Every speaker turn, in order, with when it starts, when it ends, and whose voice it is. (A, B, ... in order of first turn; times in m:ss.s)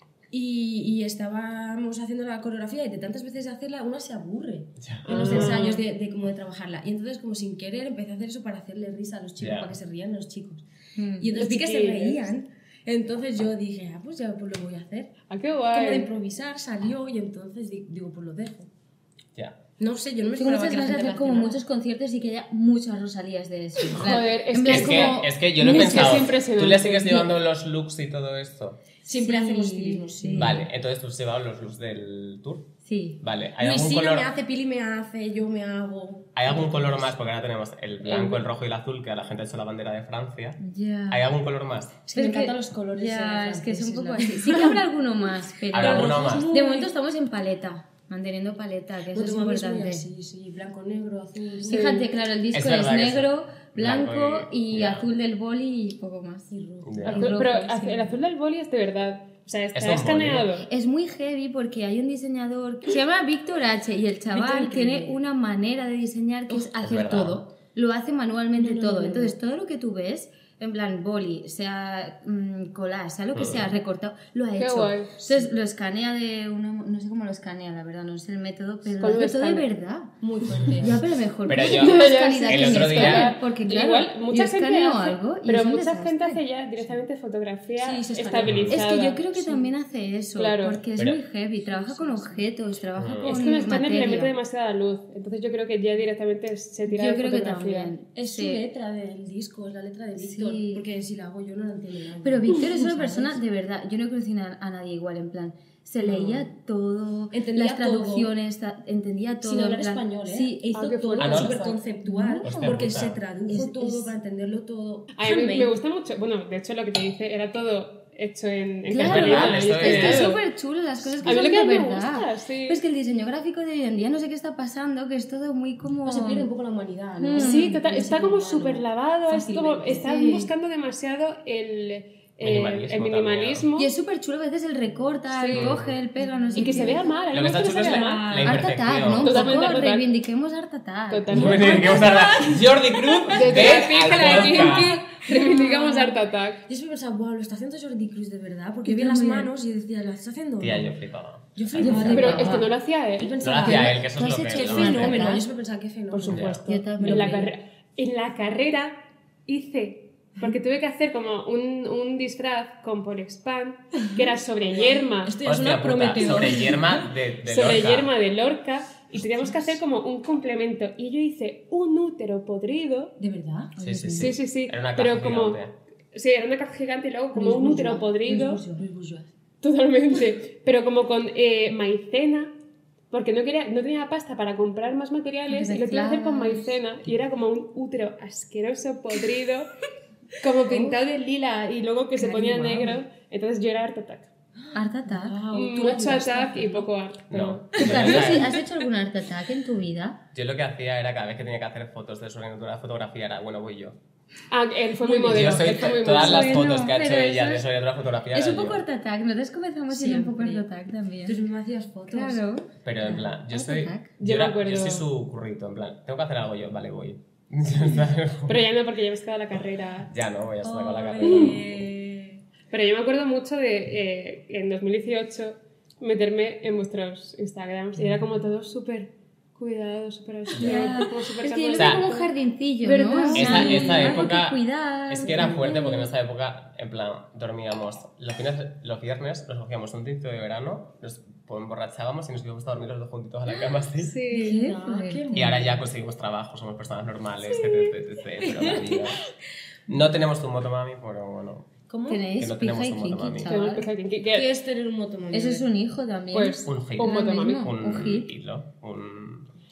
0:00.3-0:10.6 A
0:04.8-0:05.6 B
0:05.0-0:05.8 C
0:09.4-0:09.7 B
0:11.0-0:11.3 D
0:11.2-0:15.1 A
0:11.3-0:12.2 C
0:15.3-0:16.1 C
0:15.7-0:18.7 A
0:19.8-0:21.6 A
0:20.4-0:26.2 D
0:24.0-0:27.3 C
0:24.6-0:28.8 B
0:29.0-0:30.6 A
0:29.1-0:30.7 D
0:30.3-0:32.7 B
0:32.8-0:33.2 D
0:33.2-0:34.3 B
0:33.6-0:37.1 A
0:36.3-0:42.0 B
0:38.0-0:38.4 C
0:40.6-0:41.3 D
0:42.1-0:44.8 A
0:42.1-0:50.0 D
0:45.7-0:46.5 B
0:45.7-0:46.9 A
0:49.1-0:52.1 A
0:51.6-0:56.5 D
0:51.7-0:52.0 C
0:52.5-0:55.1 B
0:56.5-0:58.1 A
0:56.8-0:57.3 B
0:57.1-1:00.7 C
0:57.1-0:57.9 D
0:59.7-1:00.5 B
1:00.7-1:26.4 D
1:04.3-1:05.2 A
1:06.8-1:07.4 B
1:08.5-1:09.4 A
1:13.3-1:13.6 B
1:14.6-1:15.1 C
1:19.0-1:19.7 C
1:20.2-1:21.0 A
1:21.5-1:23.3 B
1:21.6-1:29.2 C
1:27.8-1:29.7 A
1:28.4-1:28.8 B
1:28.7-1:34.3 D
1:30.4-1:30.8 C
1:31.6-1:32.5 A
1:33.0-1:33.3 B
1:33.2-1:37.9 C
1:36.9-1:38.6 D
1:38.2-1:43.4 A
1:40.2-1:40.8 D
1:42.2-1:52.8 D
1:46.0-1:46.4 A
1:47.3-1:48.3 A
1:49.4-1:55.8 A
1:50.7-1:51.8 C
1:51.2-1:51.6 B
1:52.4-1:53.2 B
1:53.5-1:54.1 D
1:55.1-2:00.4 C
1:58.9-2:06.5 D
1:59.0-2:00.3 B
2:01.2-2:02.8 C
2:06.0-2:10.2 A
2:07.2-2:07.8 D
2:07.3-2:13.9 C
2:09.9-2:10.5 D
2:12.4-2:13.7 B
2:13.8-2:17.1 D
2:15.3-2:15.7 C
2:15.5-2:16.0 B
2:16.2-2:18.7 A
2:16.6-2:18.4 C
2:17.3-2:19.5 B
2:18.4-2:22.3 D
2:19.2-2:20.0 C
2:21.1-2:22.0 C
2:21.3-2:25.0 B
2:21.5-2:30.9 A
2:23.3-2:26.6 C
2:25.3-2:25.6 D
2:28.8-2:29.5 D
2:30.6-2:32.5 B
2:31.5-2:37.5 A
2:31.8-2:32.7 D
2:32.1-2:33.8 C
2:33.4-2:35.3 B
2:33.9-2:35.4 D
2:36.1-2:45.4 C
2:36.3-2:36.6 B
2:36.6-2:37.5 D
2:44.6-2:47.1 A
2:45.4-2:48.1 B
2:47.4-2:53.1 C
2:53.2-2:54.3 A
2:53.8-2:54.3 D
2:53.8-2:55.7 B
2:54.2-2:55.6 C
2:56.1-2:58.6 C
2:57.3-2:59.3 A
2:59.6-3:02.5 C
3:03.1-3:09.7 C
3:05.5-3:06.8 D
3:10.4-3:14.3 C
3:10.7-3:11.0 A
3:12.1-3:13.0 A
3:14.6-3:16.9 A
3:14.7-3:15.4 D
3:15.5-3:18.3 C
3:17.3-3:18.5 B
3:17.8-3:20.2 D
3:17.9-3:18.5 A
3:20.3-3:24.0 B
3:24.5-3:26.6 C
3:25.0-3:26.0 A
3:25.3-3:28.8 B
3:26.0-3:27.6 D
3:28.3-3:31.4 D
3:29.9-3:30.6 A
3:31.2-3:32.4 A
3:32.1-3:34.1 D
3:32.8-3:38.6 B
3:34.2-3:35.0 C
3:38.5-3:40.1 C
3:40.1-3:41.8 B
3:40.6-3:42.4 A
3:41.2-3:41.6 C
3:42.7-3:52.3 C
3:50.5-3:56.0 D
3:51.7-3:52.0 B
3:52.8-3:54.2 C
3:53.3-3:54.2 A
3:53.3-4:04.2 B
3:55.2-3:55.8 A
4:04.0-4:04.6 C
4:04.3-4:05.6 D
4:04.3-4:05.8 A
4:05.3-4:09.2 B
4:07.6-4:09.1 A
4:09.9-4:11.7 B
4:11.9-4:12.3 A
4:12.1-4:13.9 D
4:12.4-4:13.5 B
4:13.5-4:14.5 C
4:14.3-4:15.6 A
4:15.3-4:18.3 D
4:16.3-4:17.7 C
4:16.6-4:19.5 B